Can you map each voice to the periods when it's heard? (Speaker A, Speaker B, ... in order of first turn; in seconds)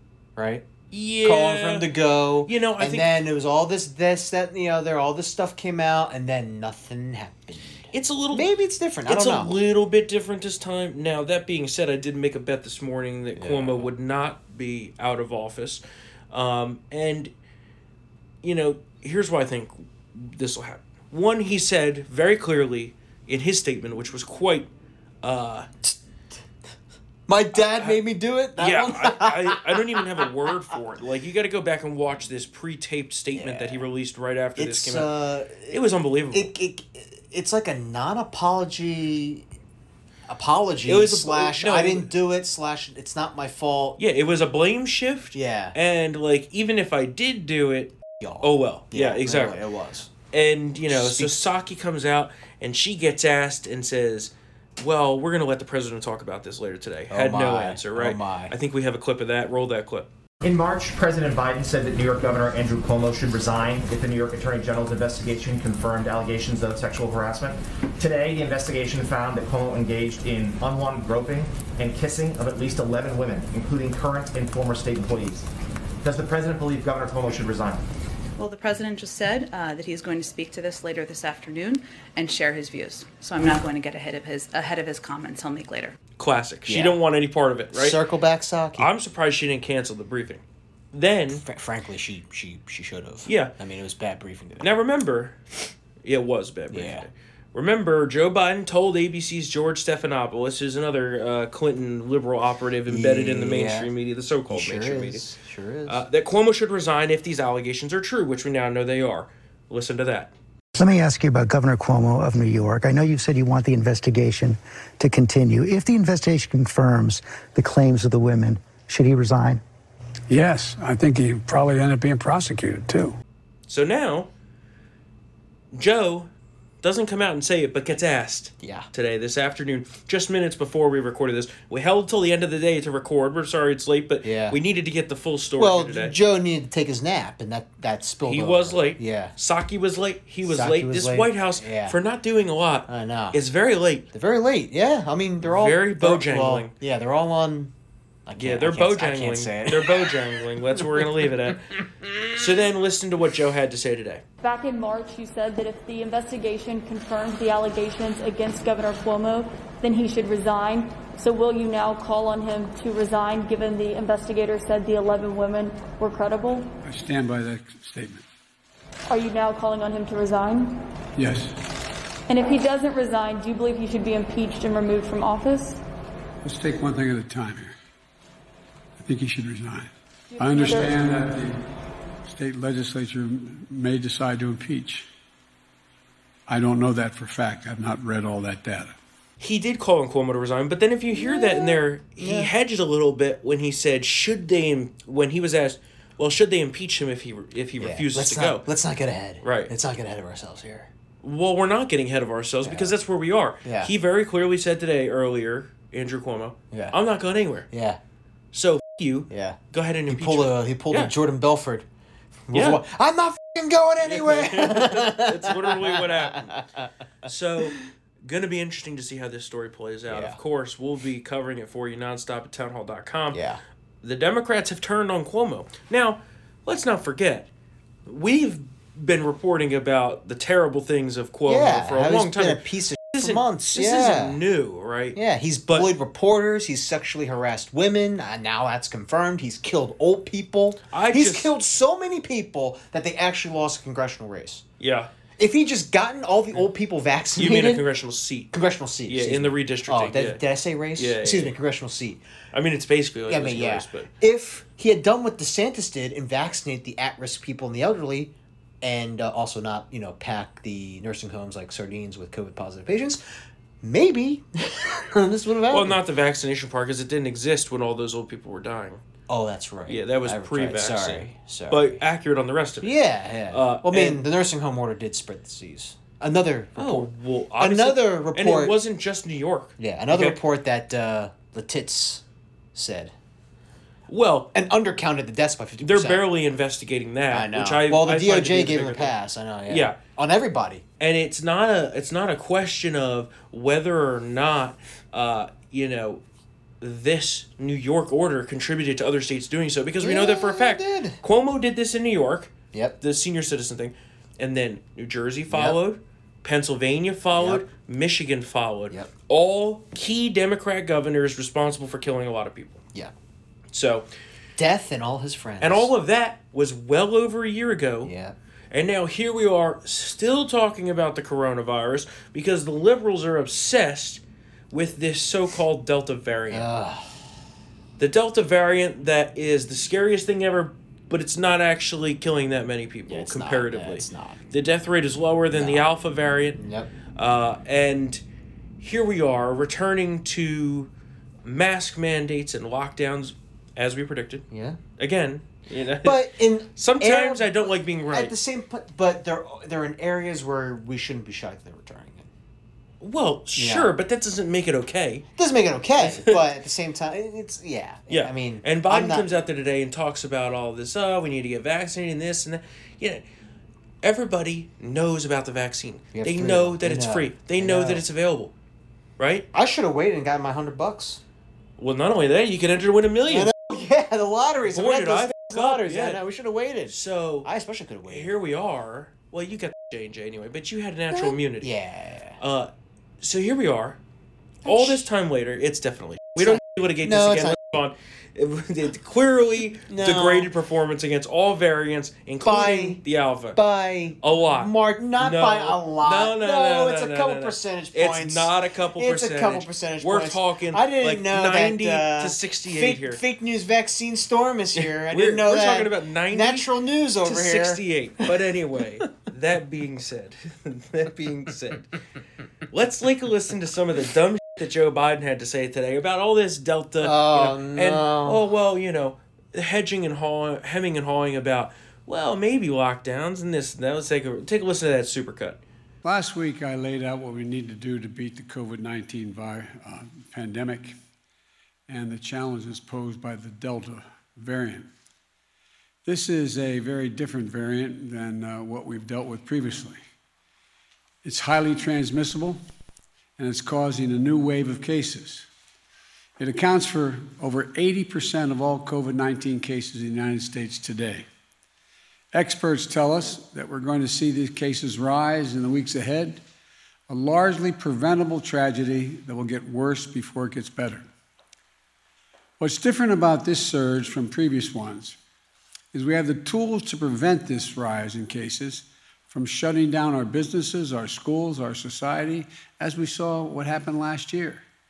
Speaker A: 0.3-0.6, 1.2-9.6, 13.3-13.9, 27.3-30.2, 33.3-33.9, 34.6-39.5, 40.3-44.0, 45.3-45.8, 48.2-50.1, 50.9-51.4, 57.1-58.5, 86.7-87.0, 87.7-88.9, 91.3-94.8, 96.7-97.1, 102.9-103.9, 104.5-106.0, 128.6-128.9, 134.2-134.6, 135.6-139.3, 140.4-142.0, 142.9-143.4, 144.1-147.7, 148.2-150.2, 191.2-192.5, 197.8-200.9, 202.6-202.9, 203.6-203.9, 206.7-207.0, 207.7-208.0, 209.3-211.8, 212.5-216.9, 220.1-220.4, 223.3-223.6, 231.5-234.4, 235.1-244.6, 245.4-247.8, 248.5-252.2, 253.3-263.2, 263.8-266.0, 269.3-272.0, 272.8-278.8, 279.8-282.2, 282.7-283.1, 284.5-286.2, 287.3-290.8, 300.0-301.2, 302.7-303.0, 305.5-305.8, 307.3-307.6, 314.6-315.9, 318.0-318.4, 326.5-327.2, 333.1-334.4, 335.5-335.9, 336.5-336.9, 344.5-344.8, 346.0-352.3, 353.5-353.9, 355.4-359.3, 366.1-368.0, 369.5-371.2, 373.3-378.3, 381.1-382.4, 384.6-385.1, 386.4-387.8, 389.9-390.5, 392.4-393.0, 393.5-408.2, 417.0-418.4
Speaker B: 0.9-1.9, 2.4-3.1, 7.9-8.4, 9.1-17.3, 18.4-24.7, 25.2-25.7, 27.6-28.0, 28.6-35.1, 35.6-36.5, 40.9-42.1, 44.0-49.6, 50.3-60.1, 86.2-88.0, 88.8-91.4, 93.2-93.5, 94.6-95.4, 96.0-105.3, 105.9-110.3, 123.7-124.3, 125.7-126.3, 126.8-136.1, 138.2-144.1, 145.4-146.7, 148.4-151.8, 152.3-154.2, 189.4-198.7, 199.4-199.7, 201.2-207.7, 208.5-211.1, 212.5-212.8, 214.0-216.5, 217.2-223.4, 224.0-227.5, 228.1-235.9, 240.9-241.5, 244.8-245.1, 247.3-248.5, 249.0-250.4, 250.9-251.6, 252.5-254.1, 265.7-269.0, 269.9-272.9, 273.5-274.2, 276.8-280.4, 284.1-284.5, 285.8-289.1, 289.7-290.0, 291.0-296.2, 296.8-312.8, 313.7-314.1, 315.6-318.1, 318.7-326.7, 328.0-336.6, 337.1-338.2, 338.8-340.9, 341.4-344.4, 345.0-348.3, 353.0-355.2, 356.0-356.4, 358.1-363.2, 364.0-368.5, 369.2-369.5, 371.8-373.5, 374.6-376.2, 376.9-377.5, 378.1-381.7, 382.4-382.7, 383.2-384.0, 384.6-393.6, 394.2-403.2, 404.7-406.7, 407.2-411.9, 412.7-425.6
Speaker C: 60.4-75.5, 76.0-77.8
Speaker D: 78.4-86.0
Speaker E: 110.7-119.6
Speaker F: 120.3-123.1, 166.8-168.2, 171.2-171.5, 176.4-177.7, 179.0-181.6, 182.2-185.1, 186.5-188.9, 426.0-430.9, 431.9-434.9, 436.0-440.0, 441.2-442.6, 443.4-445.5, 446.4-451.2, 452.3-456.4, 457.1-461.1, 462.6-465.2, 465.9-474.6
Speaker G: 154.4-166.7, 169.1-170.8, 172.3-175.8, 180.3-181.0